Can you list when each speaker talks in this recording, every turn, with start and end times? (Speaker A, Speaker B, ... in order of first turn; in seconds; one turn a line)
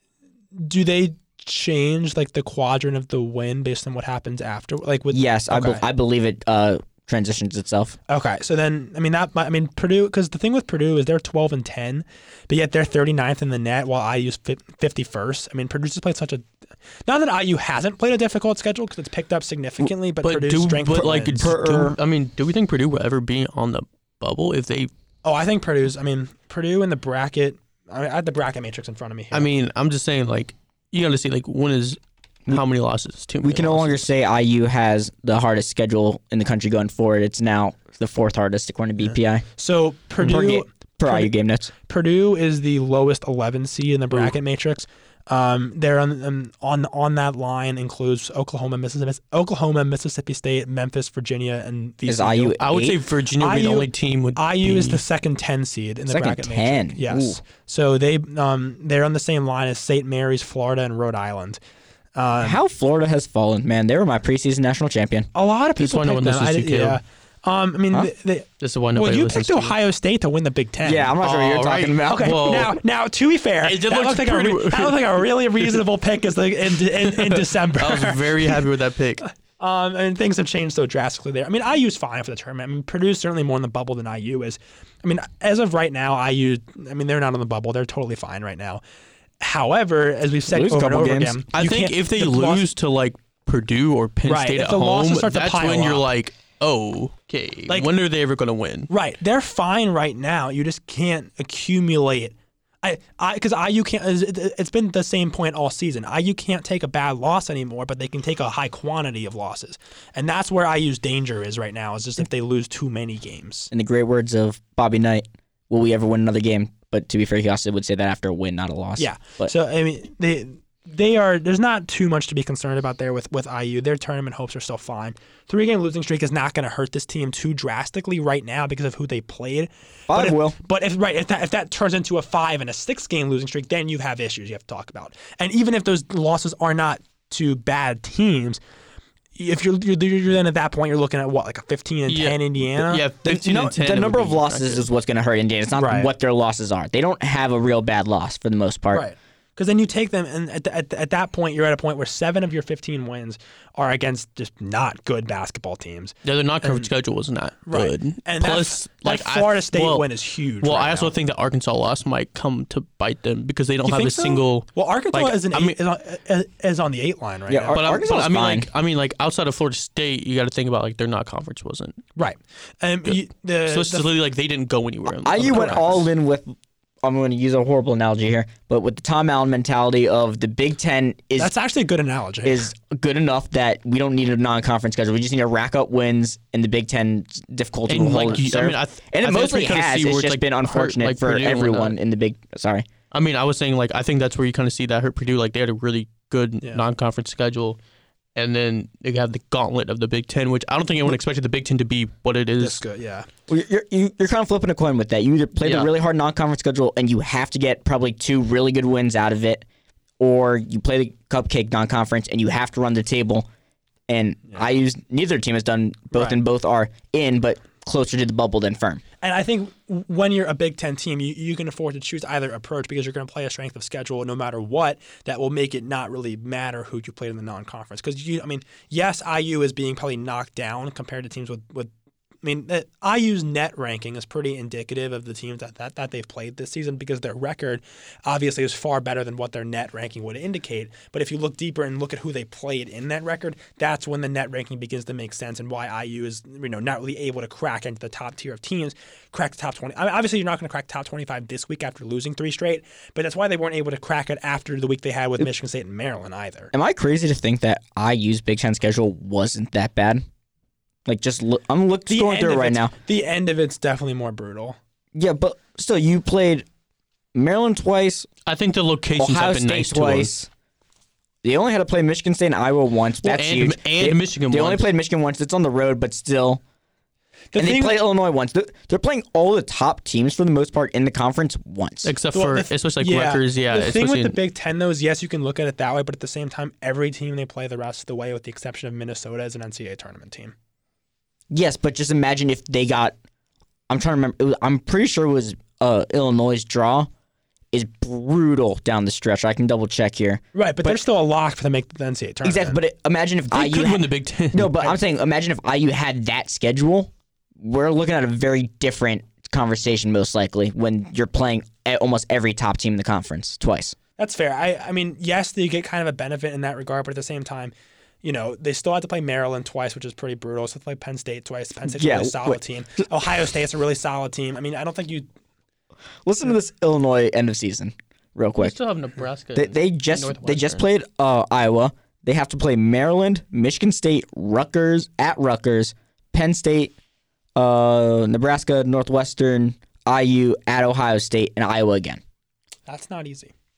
Speaker A: 0.5-5.8
Speaker B: 5.1-8.0
Speaker A: 8.1-16.5
Speaker A: 17.1-21.4
Speaker C: 20.2-24.9
Speaker B: 21.4-22.0
Speaker A: 25.2-29.5
Speaker C: 29.3-34.0
Speaker B: 33.4-39.5
Speaker A: 39.0-41.3
Speaker B: 40.2-41.7
Speaker A: 41.9-52.6
Speaker B: 52.1-53.0
Speaker C: 52.6-55.0
Speaker A: 53.4-61.6
Speaker B: 56.1-57.4
Speaker A: 62.2-62.6
Speaker B: 62.4-65.3
Speaker A: 65.3-71.1
Speaker C: 65.8-67.0
Speaker C: 68.6-69.8
Speaker B: 70.8-72.6
Speaker C: 71.2-72.8
Speaker A: 72.0-78.7
Speaker C: 73.6-75.0
Speaker C: 77.0-79.2
Speaker A: 79.6-88.8
Speaker A: 89.4-92.7
Speaker B: 90.5-91.4
Speaker C: 91.5-98.9
Speaker A: 94.3-96.0
Speaker A: 98.9-113.7
Speaker B: 113.7-119.5
Speaker A: 119.0-138.6
Speaker B: 130.1-130.6
Speaker A: 139.4-143.1
Speaker C: 142.1-144.9
Speaker B: 143.3-149.1
Speaker A: 145.7-146.1
Speaker A: 148.9-156.9
Speaker C: 156.2-160.1
Speaker A: 157.7-161.1
Speaker C: 160.6-165.8
Speaker A: 163.8-167.8
Speaker B: 167.5-168.7
Speaker C: 167.7-172.0
Speaker A: 172.2-174.1
Speaker C: 173.1-176.1
Speaker B: 175.2-176.5
Speaker A: 175.5-176.0
Speaker B: 177.0-181.5
Speaker A: 181.4-182.7
Speaker B: 182.4-192.9
Speaker C: 187.9-192.0
Speaker C: 193.1-197.8
Speaker C: 198.4-202.8
Speaker A: 202.6-203.3
Speaker B: 203.5-209.6
Speaker C: 205.6-205.9
Speaker B: 210.2-213.5
Speaker B: 214.1-219.0
Speaker A: 216.1-216.4
Speaker A: 219.2-231.9
Speaker A: 232.4-256.7
Speaker B: 256.7-260.2
Speaker B: 261.1-262.9
Speaker A: 262.1-264.8
Speaker B: 265.1-266.7
Speaker B: 267.3-268.3
Speaker C: 268.5-270.3
Speaker B: 269.2-270.5
Speaker B: 271.4-276.6
Speaker C: 273.2-274.9
Speaker A: 277.5-278.0
Speaker B: 277.6-282.1
Speaker C: 282.0-284.4
Speaker A: 282.3-290.5
Speaker B: 291.5-293.1
Speaker B: 293.9-297.1
Speaker B: 297.7-301.0
Speaker A: 300.6-302.8
Speaker B: 302.4-314.0
Speaker C: 303.5-304.7
Speaker A: 314.2-317.7
Speaker A: 318.2-325.3
Speaker B: 322.0-322.6
Speaker B: 326.3-328.8
Speaker C: 328.6-330.9
Speaker B: 329.6-336.9
Speaker B: 337.6-342.2
Speaker A: 342.9-343.5